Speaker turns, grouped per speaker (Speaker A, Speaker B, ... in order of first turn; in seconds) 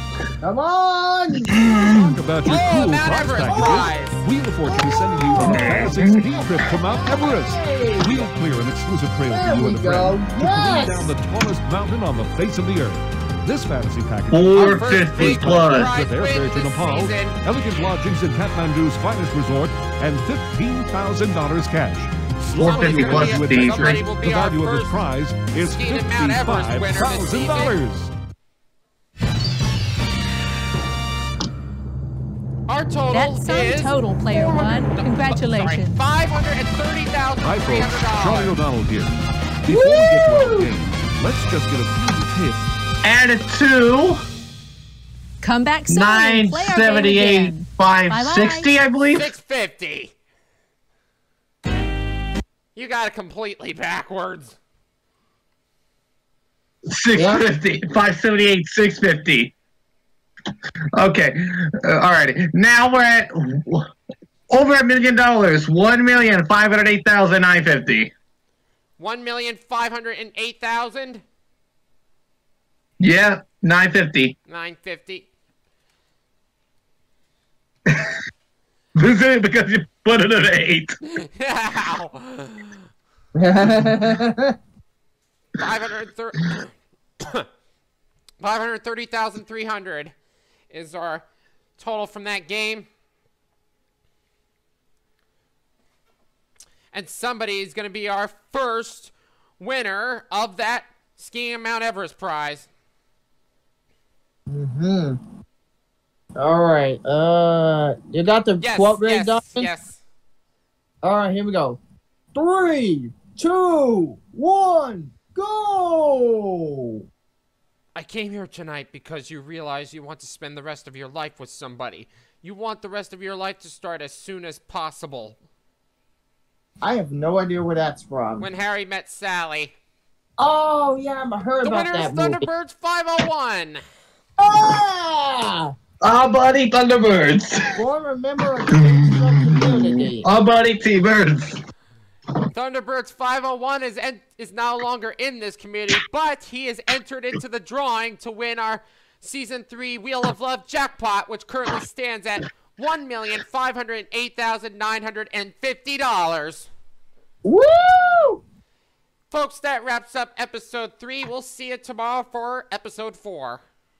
Speaker A: 0.4-2.1, 3.4-3.9, 4.6-8.3, 9.3-11.1, 39.7-40.7, 57.1-57.4, 83.3-84.5, 104.5-105.2, 106.4-109.7, 111.0-111.8, 112.3-117.0, 126.8-128.5, 130.4-132.5, 134.4-135.7, 137.8-140.3, 157.4-158.4
Speaker B: 1.6-2.0, 5.3-6.3, 14.3-15.9, 22.6-24.0, 43.0-44.2, 45.9-49.3, 56.9-59.5, 60.9-63.9, 64.5-68.1, 73.0-74.3, 79.0-80.9, 136.0-137.8, 138.7-141.6
Speaker C: 1.9-28.1, 37.4-39.1, 39.6-42.6
Speaker D: 2.4-4.2, 14.6-17.4, 22.6-24.9, 25.5-27.8, 32.7-38.5, 49.1-50.1, 52.8-54.5, 69.0-71.2, 74.5-75.3, 81.2-82.8, 85.6-87.5, 88.4-90.1, 90.7-91.2, 91.8-92.9, 96.9-102.7, 108.6-110.0, 117.9-125.4, 128.4-129.7, 131.6-133.8, 142.5-156.7, 159.3-163.6
Speaker E: 33.1-36.0, 45.4-48.7